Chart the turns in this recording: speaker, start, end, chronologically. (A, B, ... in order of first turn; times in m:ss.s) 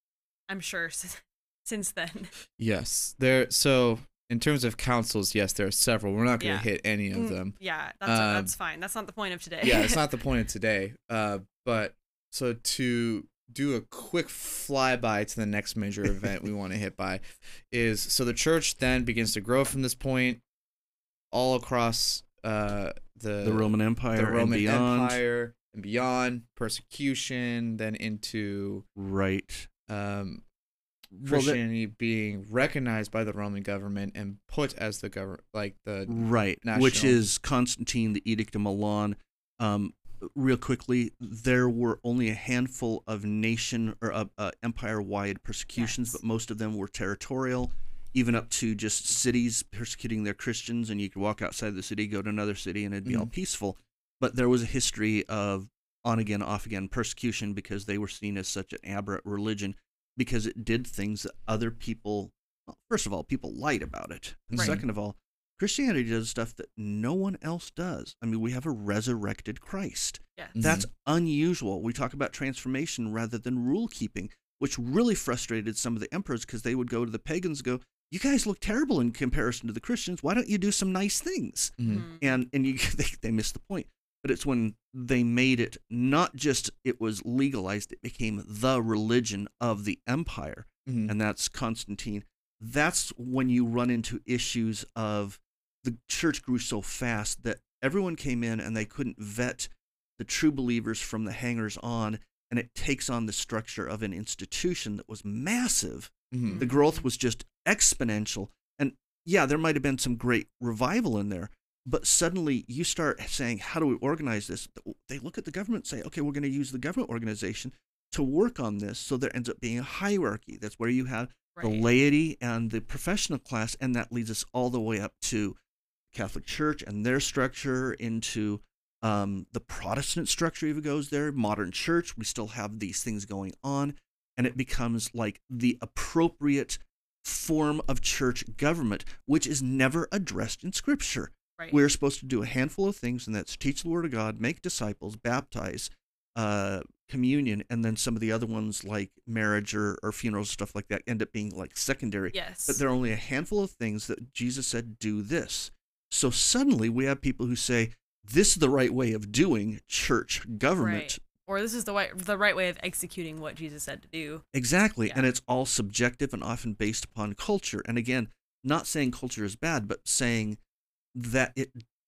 0:00.5-0:02.3 A
0:02.6-0:08.5 B
0:06.4-0:10.0 A
0:09.6-0:20.4 B
0:21.3-0:28.8 B
0:23.4-0:25.2 C
0:29.0-0:29.7 C
0:29.9-0:30.4 B
0:31.1-0:37.2 B
0:31.2-0:31.6 C
0:36.1-2:05.6 C
0:45.7-0:46.2 A
0:53.0-0:53.3 B
1:04.5-1:04.8 B
1:04.5-1:04.8 A
1:10.4-1:10.6 A
1:10.6-1:10.9 B
1:21.8-1:22.0 B
1:21.9-1:22.4 A
1:30.8-1:31.1 B
1:46.3-1:46.6 B
1:46.4-1:47.0 A
2:01.6-2:01.8 A
2:06.1-2:41.2 C
2:32.3-2:32.8 A
2:40.8-2:44.4 A
2:44.5-2:50.6 C
2:51.1-2:51.8 C